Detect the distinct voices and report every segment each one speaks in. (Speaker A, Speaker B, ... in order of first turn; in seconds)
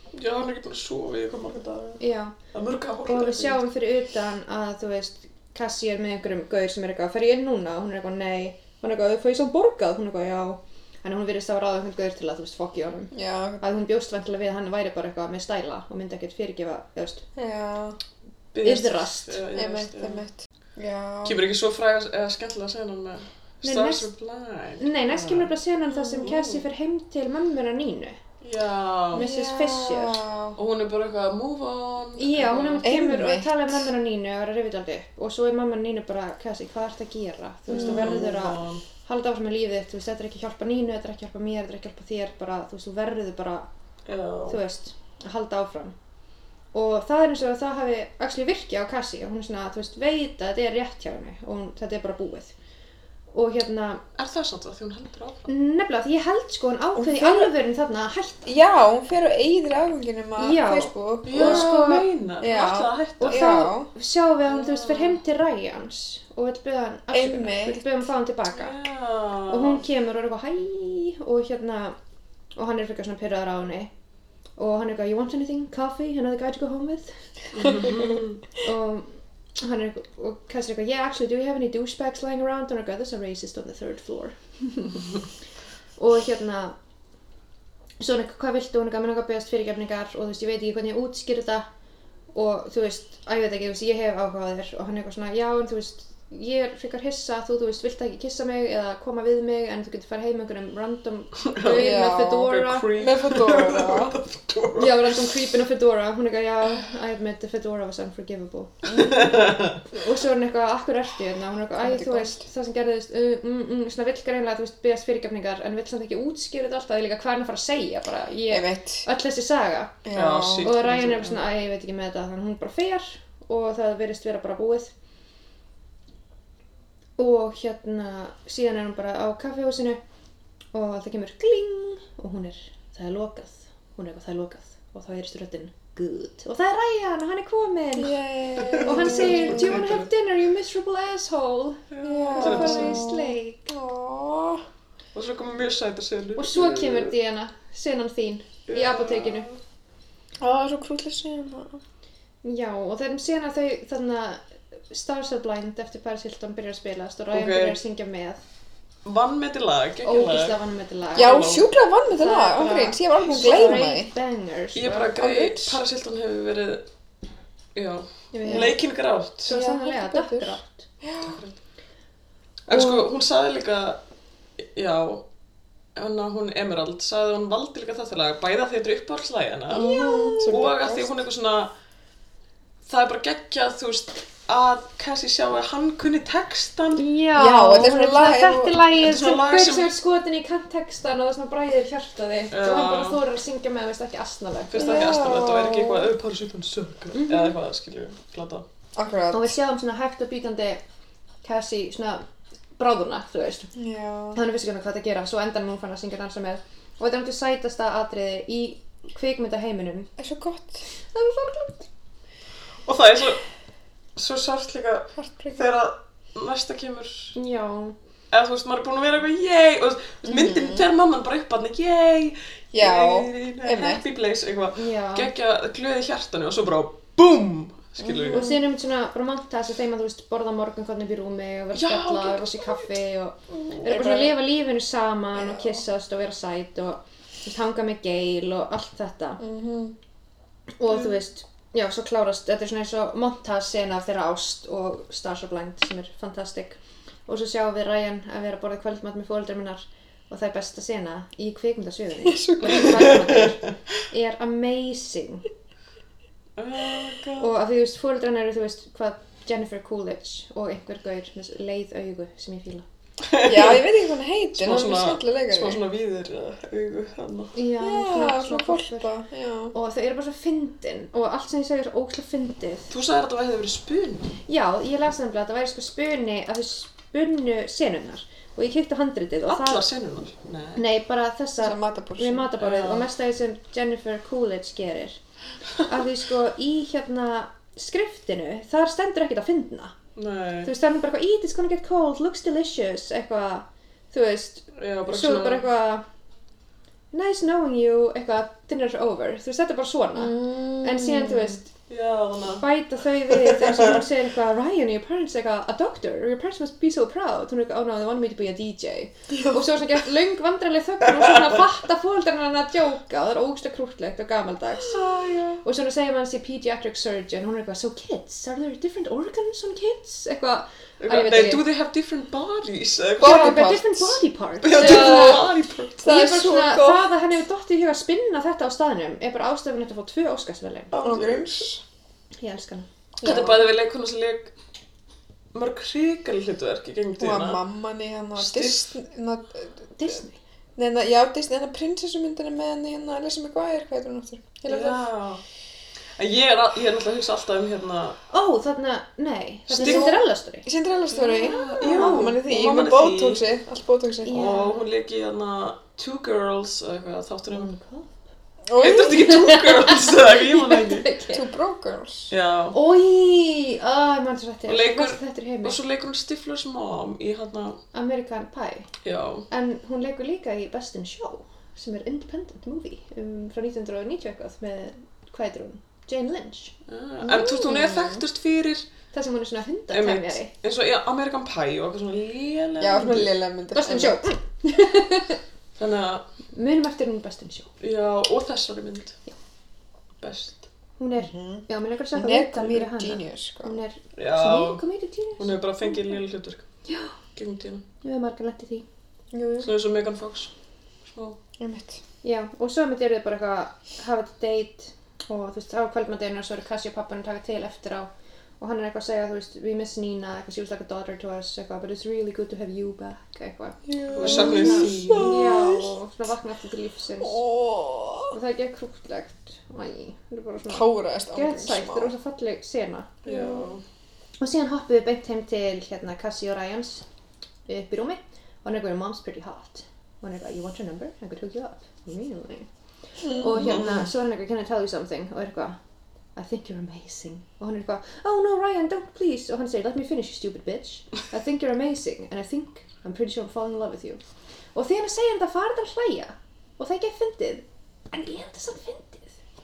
Speaker A: 0.1-3.6, 18.5-20.2, 21.2-26.7, 28.4-29.3, 30.6-32.9, 37.7-38.8, 44.1-44.6, 54.2-55.5, 61.3-63.5, 64.5-65.2, 68.5-69.8, 77.5-78.4, 101.4-105.3, 108.9-109.8, 120.1-121.4, 138.6-140.1, 141.9-143.1, 145.1-147.1, 148.7-149.6, 157.3-157.8, 159.1-160.6, 161.2-161.7, 164.8-166.8, 167.8-169.6, 171.2-171.6, 172.7-174.0, 174.6-175.2, 176.0-181.7, 182.9-187.0, 188.9-189.9, 192.5-193.2, 194.7-198.7, 212.9-213.4, 214.2-217.3, 218.3-228.5, 231.7-232.9, 233.6-233.8, 252.7-253.4, 256.6-257.5, 263.3-263.8, 264.6-267.5, 272.9-274.3, 279.5-280.8, 282.6-283.1, 290.2-290.7, 294.8-295.7, 301.9-302.7, 303.3-304.0, 311.2-311.5, 314.9-315.6, 321.0-323.9, 324.6-326.1, 330.9-331.6, 333.2-334.5, 335.5-337.6, 338.4-338.9, 344.7-345.4, 346.2-348.2, 349.7-350.2, 351.1-353.4, 354.3-357.7, 358.8-361.1, 362.3-362.8, 364.7-367.8, 369.0-369.5, 376.9-378.9, 379.9-383.3, 385.8-386.3, 387.8-389.2, 390.2-390.7, 394.2-394.8, 395.4-396.6, 397.4-397.9, 399.6-400.5, 401.1-401.4, 414.2-415.6, 423.2-423.8, 433.5-434.1
Speaker B: 2.0-2.4, 3.0-17.3, 18.6-19.4, 23.6-24.1, 24.8-28.2, 29.1-30.2, 32.2-43.7, 44.5-46.0, 46.7-52.5, 53.3-54.0, 55.5-58.4, 60.4-62.1, 63.2-68.8, 69.5-72.0, 72.5-73.9, 74.6-77.8, 78.6-85.0, 86.0-86.8, 88.0-91.7, 92.3-102.9, 104.8-109.1, 109.9-120.0, 120.6-124.9, 127.2-130.0, 130.7-138.2, 138.8-143.8, 146.4-149.5, 152.4-158.4, 160.0-165.7, 168.3-168.8, 169.4-170.9, 172.7-173.0, 179.7-180.6, 187.0-195.2, 197.1-197.6, 199.3-200.8, 201.4-202.2, 202.8-203.7, 204.3-210.1, 211.1-211.9, 217.3-218.0, 224.8-225.3, 228.3-239.4, 240.8-255.5, 257.4-262.9, 267.6-269.1, 269.7-272.9, 274.5-279.9, 280.8-285.2, 285.8-289.9, 290.6-296.1, 297.1-301.7, 302.6-315.0, 315.6-321.6, 323.2-325.5, 326.0-331.0, 332.4-332.9, 340.0-340.4, 348.3-350.7, 351.5-352.3, 354.2-354.8, 357.5-358.2, 359.0-361.4, 362.7-365.8, 367.9-368.9, 369.5-376.8, 377.3-377.7, 379.1-380.5, 383.7-385.4, 386.5-387.7, 391.0-396.2, 396.9-397.2, 398.0-398.9, 402.2-408.1, 408.6-417.4, 418.3-423.2, 424.4-427.1, 427.7-432.7, 433.3-435.8, 436.4-444.2, 444.7-449.3
Speaker C: 13.1-13.6, 17.4-18.0, 19.5-21.4, 29.1-30.6, 32.8-33.9, 37.7-38.2, 57.0-57.5, 58.5-61.7, 62.4-63.9, 67.1-67.8, 101.7-104.2, 108.9-109.2, 111.8-112.4, 118.5-119.0, 120.0-120.7, 138.0-139.9, 142.0-144.7, 150.4-151.8, 161.2-164.1, 169.5-171.4, 179.7-181.2, 187.4-188.8, 194.8-196.1, 199.0-199.5, 203.8-204.4, 210.2-210.9, 215.2-215.7, 220.3-220.9, 222.7-224.0, 228.0-228.6, 233.8-234.3, 235.4-235.8, 239.4-240.0, 252.3-253.2, 263.4-265.8, 267.8-269.7, 281.6-282.5, 300.2-301.6, 309.4-309.6, 323.2-324.2, 324.7-327.1, 331.0-331.8, 333.2-333.7, 337.2-340.2, 340.8-345.1, 349.8-354.5, 358.7-359.4, 361.3-362.3, 377.4-378.2, 382.8-384.2, 391.2-393.8, 399.3-399.7, 401.6-402.0, 413.9-415.9, 417.2-418.4, 420.7-422.1, 423.3-423.7, 433.2-433.8